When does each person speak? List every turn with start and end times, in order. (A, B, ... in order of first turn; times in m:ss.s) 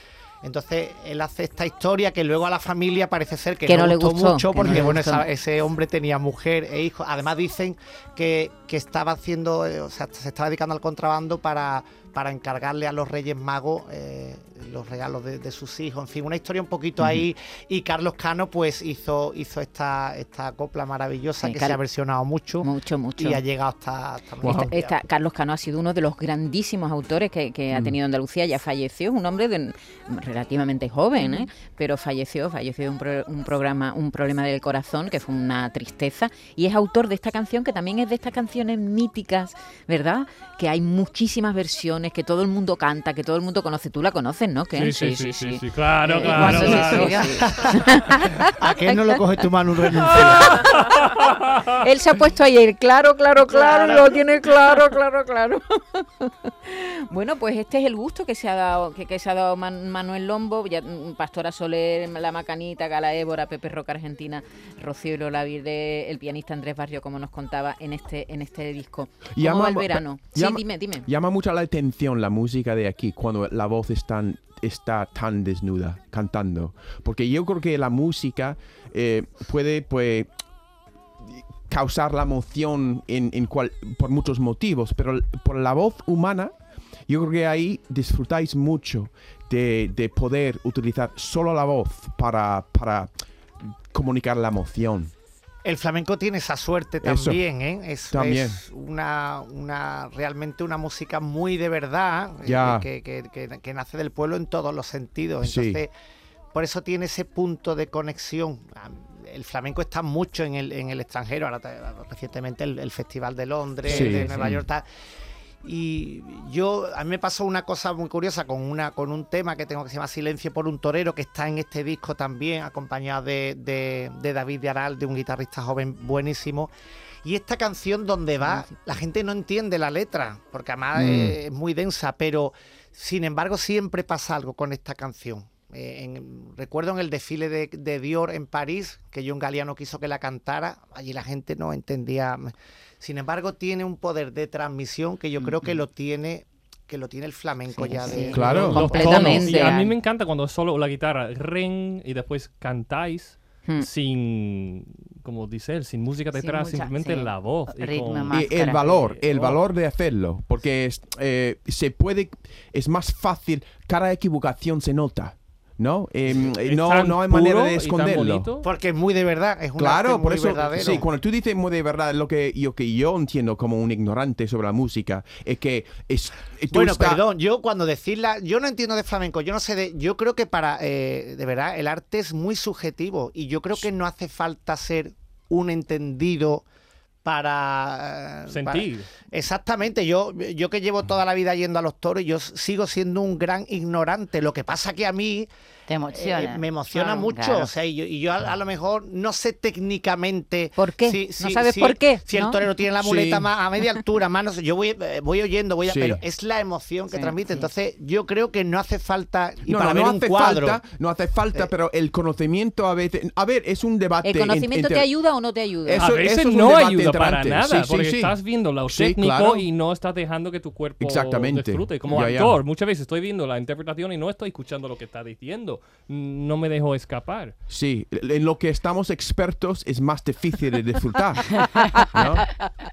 0:00.4-0:24.9 A
0:03.6-0:05.2 B
0:21.4-0:21.8 B
0:22.6-0:23.4 B
0:24.4-0:24.7 C
0:24.6-0:49.2 B
0:44.7-0:47.2 D
0:46.3-0:47.4 E
0:46.4-0:47.9 A
0:48.6-0:50.7 A
0:50.0-0:50.7 B
0:51.8-1:11.1 B
0:53.5-0:54.2 A
1:09.4-1:20.3 C
1:21.2-1:26.5 C
1:27.1-1:33.1 C
1:33.9-1:35.1 C
1:35.6-1:45.9 A
1:37.0-1:37.4 C
1:38.1-1:38.6 C
1:42.4-1:42.8 C
1:45.4-1:45.8 C
1:46.5-1:54.8 A
1:53.8-1:54.6 C
1:55.6-2:06.7 A
2:07.2-2:29.6 A
2:11.0-2:11.3 C
2:27.8-2:29.9 B
2:28.3-2:29.3 C
2:28.6-2:39.6 D
2:36.3-2:39.0 E
2:38.3-2:48.5 C
2:46.3-2:48.6 D
2:48.6-2:51.0 A
2:49.8-2:57.2 C
2:56.7-3:06.6 A
3:07.2-3:15.5 A
3:08.5-3:09.1 D
3:15.9-3:17.7 E
3:16.1-3:30.8 A
3:20.8-3:22.6 B
3:23.0-3:23.5 C
3:25.8-3:26.2 C
3:27.1-3:27.7 B
3:29.6-3:35.2 C
3:34.2-3:36.1 B
3:35.8-3:39.7 C
3:35.9-3:47.6 D
3:41.0-3:42.6 C
3:47.7-3:51.5 C
3:51.7-3:52.7 B
3:52.1-3:52.4 C